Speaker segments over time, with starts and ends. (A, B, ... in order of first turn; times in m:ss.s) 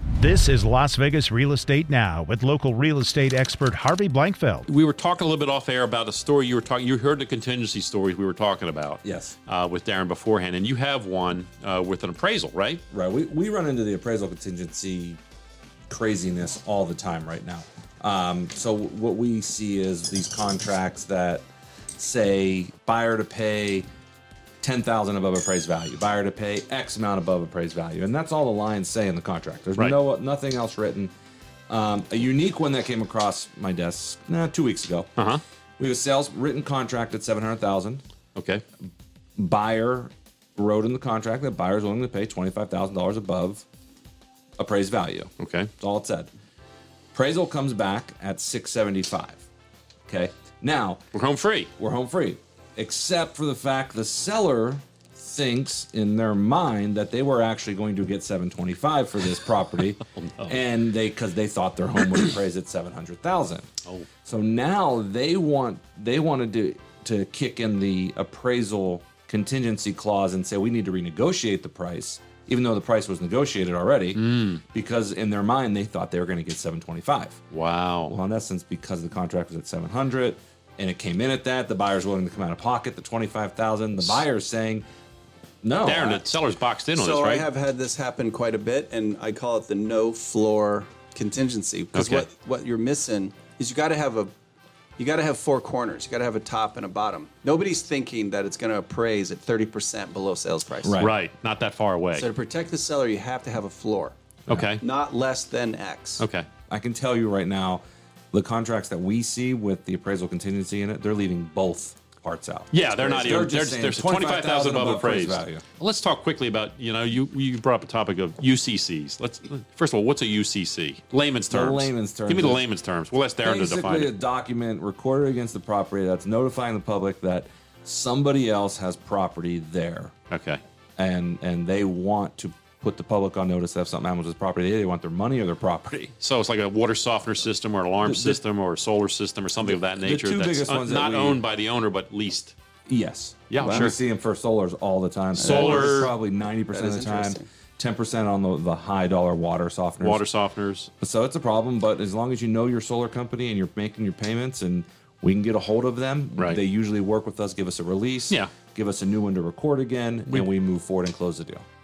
0:00.2-0:04.7 A
0:04.7-0:12.8 B
0:09.0-0:09.4 C
0:12.9-0:15.2 C
0:15.9-0:21.4 C
0:22.0-0:23.9 C
0:24.6-0:31.1 C
0:31.7-0:35.1 C
0:35.8-0:38.0 C
0:38.4-0:38.6 B
0:39.4-0:43.7 C
0:44.6-0:46.3 C
0:45.4-0:45.7 B
0:47.1-0:49.4 C
0:50.1-0:51.0 C
0:51.1-0:51.7 B
0:51.8-1:03.7 C
1:00.2-1:00.6 B
1:04.2-1:17.4 C
1:14.2-1:14.6 B
1:17.5-1:18.2 B
1:18.1-1:24.8 C
1:24.0-1:24.2 B
1:25.6-1:26.3 C
1:25.8-1:27.5 B
1:26.9-1:34.3 D
1:31.9-1:32.2 B
1:35.0-1:40.9 D
1:40.8-1:41.2 C
1:41.0-1:42.3 B
1:42.2-1:44.2 D
1:44.5-1:44.8 B
1:44.8-1:46.2 D
1:46.2-1:46.5 B
1:46.7-1:55.6 C
1:52.7-2:04.1 B
2:01.5-2:02.6 C
2:03.4-2:10.1 C
2:10.3-2:10.6 B
2:11.0-2:16.1 C
2:16.2-2:22.6 B
2:18.0-2:18.4 C
2:19.6-2:21.4 C
2:22.9-2:30.3 C
2:23.5-2:24.0 B
2:25.4-2:26.1 D
2:25.4-2:26.1 B
2:26.7-2:27.5 D
2:30.0-2:30.9 B
2:31.0-2:41.7 C